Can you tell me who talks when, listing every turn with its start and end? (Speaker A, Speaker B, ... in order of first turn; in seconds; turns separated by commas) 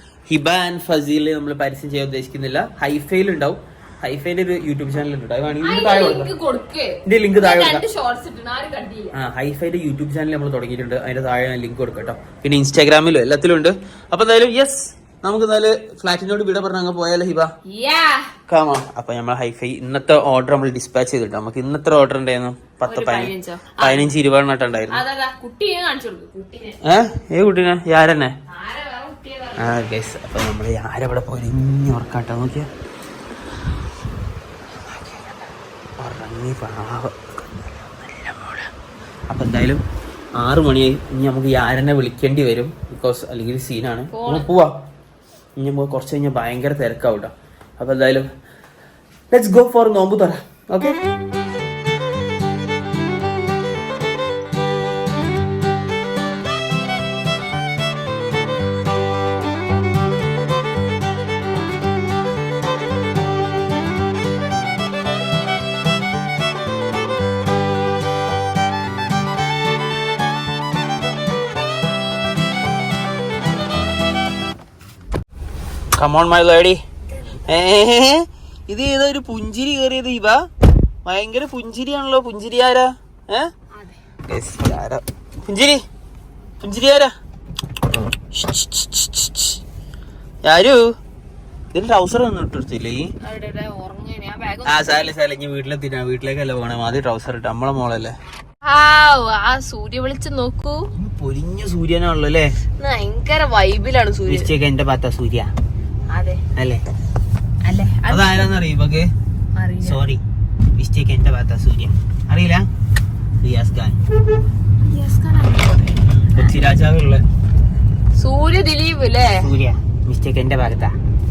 Speaker A: 0.3-6.3, Speaker B: 5.6-9.2, Speaker A: 7.1-7.8, Speaker A: 9.1-17.5, Speaker B: 17.7-18.3, Speaker A: 18.5-25.0, Speaker B: 22.9-24.1, Speaker B: 24.9-26.8, Speaker A: 26.8-28.4, Speaker B: 28.5-29.8, Speaker A: 29.6-32.7, Speaker A: 34.9-35.2, Speaker A: 36.0-38.7, Speaker A: 39.3-39.8, Speaker A: 40.4-44.8, Speaker B: 44.1-44.5, Speaker A: 45.6-48.3, Speaker A: 49.3-51.0, Speaker A: 76.0-76.8, Speaker A: 77.5-80.5, Speaker A: 81.0-83.5, Speaker B: 83.7-84.0, Speaker A: 84.3-85.8, Speaker A: 86.6-87.1, Speaker A: 88.2-89.6, Speaker A: 90.5-90.9, Speaker A: 91.7-93.1, Speaker B: 93.2-95.1, Speaker A: 94.7-98.2, Speaker B: 98.7-100.9, Speaker A: 101.0-102.5, Speaker B: 102.8-104.5, Speaker A: 104.3-105.5, Speaker B: 106.1-106.4, Speaker A: 106.5-106.8, Speaker B: 107.7-108.6, Speaker A: 108.1-109.1, Speaker B: 109.6-110.0, Speaker A: 109.8-110.2, Speaker A: 110.8-112.7, Speaker A: 113.4-114.0, Speaker B: 114.8-116.5, Speaker A: 116.0-117.2, Speaker B: 118.2-119.5, Speaker A: 119.3-121.0